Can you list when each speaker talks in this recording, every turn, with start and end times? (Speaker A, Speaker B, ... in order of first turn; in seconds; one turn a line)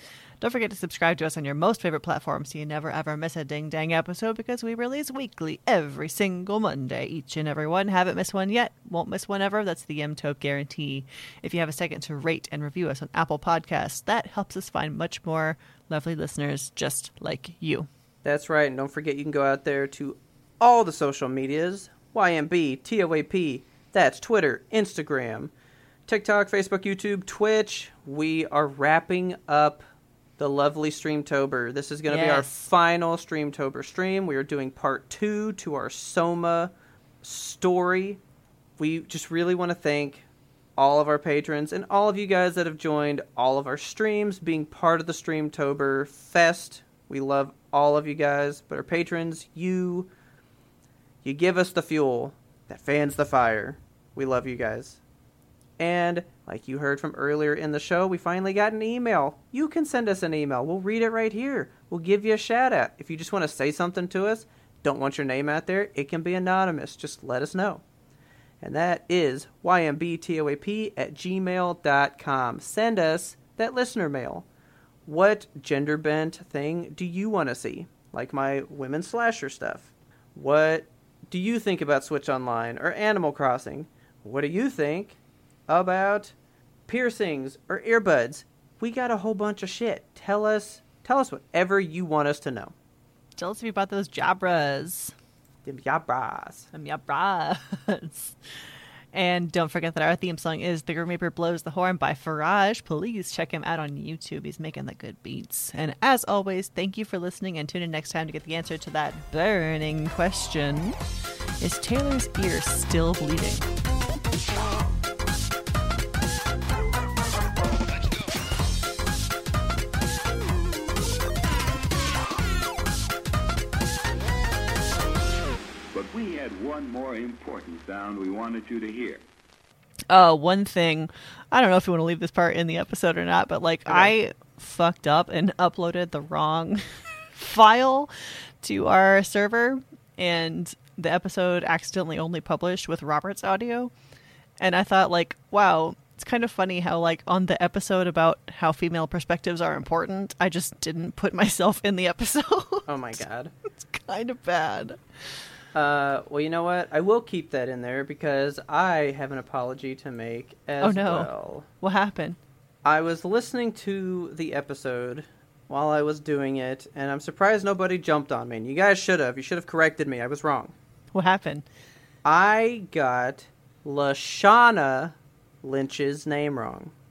Speaker A: 0.4-17.9
Speaker B: 18.2-25.5
Speaker B: 26.1-29.8
Speaker B: 30.4-38.2
Speaker A: 32.1-32.6
Speaker B: 38.8-40.2
Speaker B: 40.8-50.1
Speaker B: 51.2-55.0
Speaker B: 55.8-67.8
Speaker B: 68.6-74.5
Speaker B: 75.0-86.3
Speaker B: 86.9-92.7
Speaker A: 93.4-95.1
Speaker B: 95.6-96.7
Speaker A: 96.7-98.3
Speaker A: 99.1-111.0
Speaker A: 111.6-113.7
Speaker C: 125.9-129.2
Speaker A: 130.1-138.1
Speaker B: 133.8-134.1
Speaker A: 138.6-143.9
Speaker A: 144.6-155.0
Speaker B: 152.9-153.5
Speaker B: 155.7-161.7
Speaker A: 160.8-162.4
Speaker B: 162.8-170.7
Speaker A: 171.1-171.6
Speaker B: 172.2-176.9